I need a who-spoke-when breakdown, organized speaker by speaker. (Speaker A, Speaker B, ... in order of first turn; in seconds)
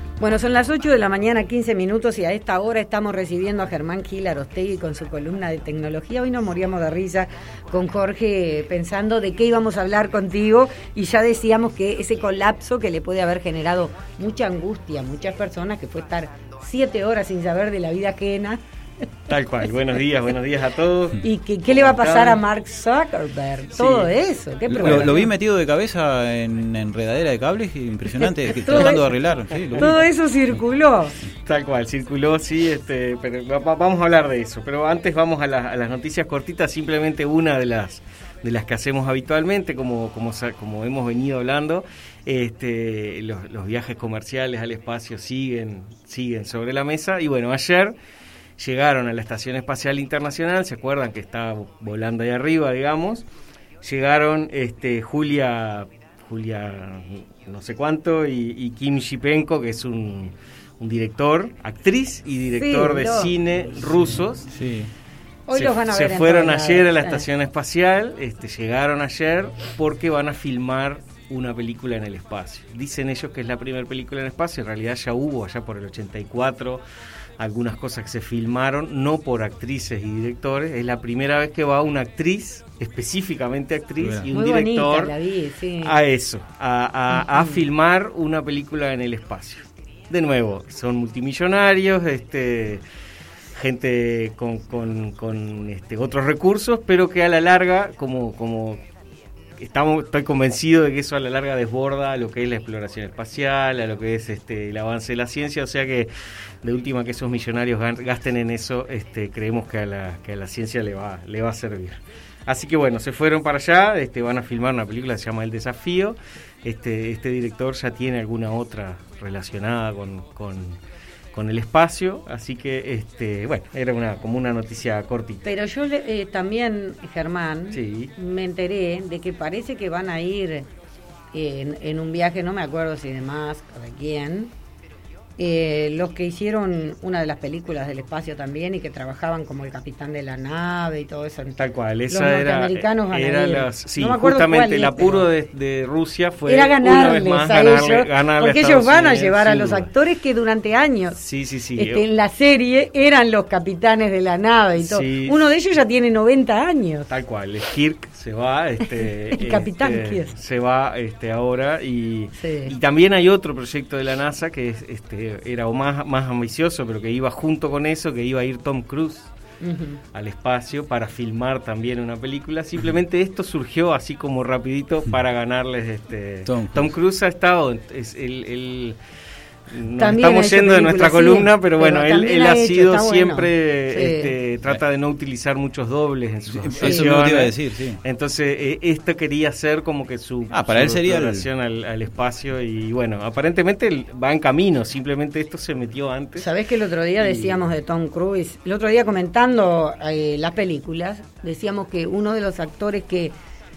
Speaker A: 0.2-18.6, 21.2-25.3, 28.2-29.1, 29.8-31.1, 62.5-63.3, 65.5-67.2, 84.3-86.0, 87.1-87.5, 125.4-130.7, 131.3-134.5, 135.4-141.6, 142.1-145.3, 146.4-151.2, 151.7-157.2, 159.3-160.3, 162.4-162.8, 169.6-170.0, 180.0-184.3, 186.8-187.1, 196.3-203.3
Speaker B: 19.3-22.4, 23.8-24.1, 24.8-25.2, 31.4-47.9, 48.6-53.2, 53.8-64.5, 65.5-76.8, 77.4-85.1, 85.8-92.8, 93.5-98.8, 99.6-106.1, 106.6-120.8, 121.3-125.5, 127.7-128.1, 141.6-149.9, 151.1-152.0, 154.8-155.4, 157.1-169.3, 170.1-179.0, 179.7-196.4, 197.2-197.7
Speaker C: 24.7-29.9, 64.5-64.9, 84.0-84.3, 176.4-176.9, 186.5-188.0, 190.5-191.5